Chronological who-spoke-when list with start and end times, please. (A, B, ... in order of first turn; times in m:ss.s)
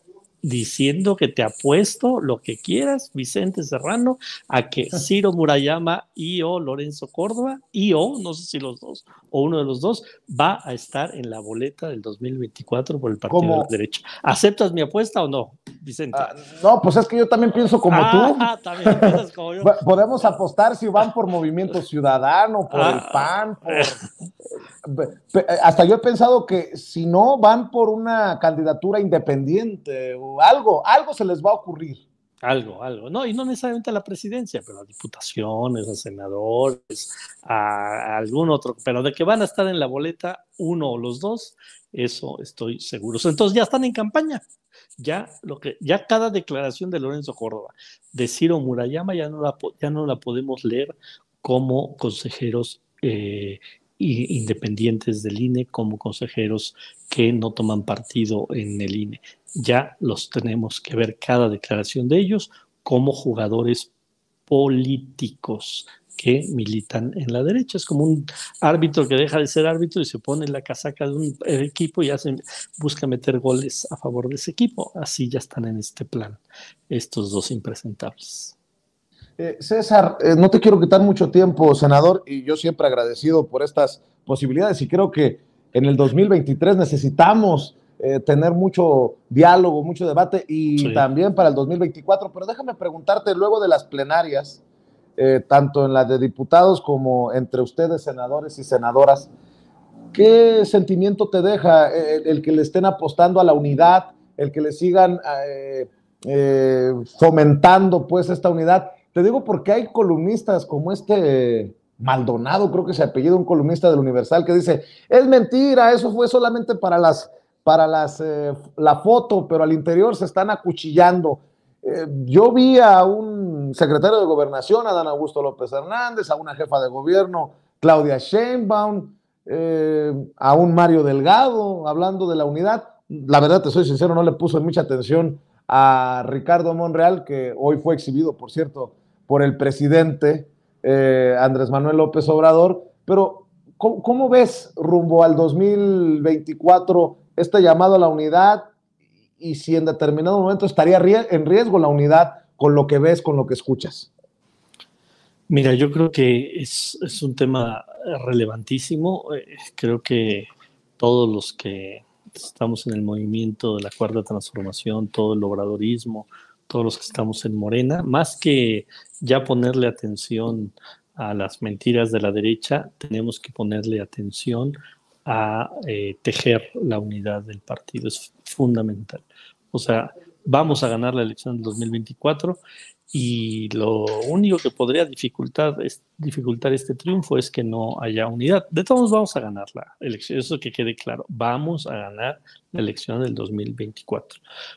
0:00.4-0:16.3 A
0:13.3-0:13.7 B
0:16.1-0:24.0 B
0:17.9-0:20.4 A
0:22.7-0:24.1 A
0:24.8-0:32.0 B
0:32.4-0:44.4 A
0:45.0-1:03.9 A
1:04.5-1:18.6 A
1:19.4-1:34.6 B
1:30.8-1:31.0 A
1:35.2-1:39.3 B
1:40.1-2:28.7 B
2:29.4-2:34.1 B
2:35.5-2:40.5 A
2:41.0-3:02.6 A
3:03.1-3:14.4 A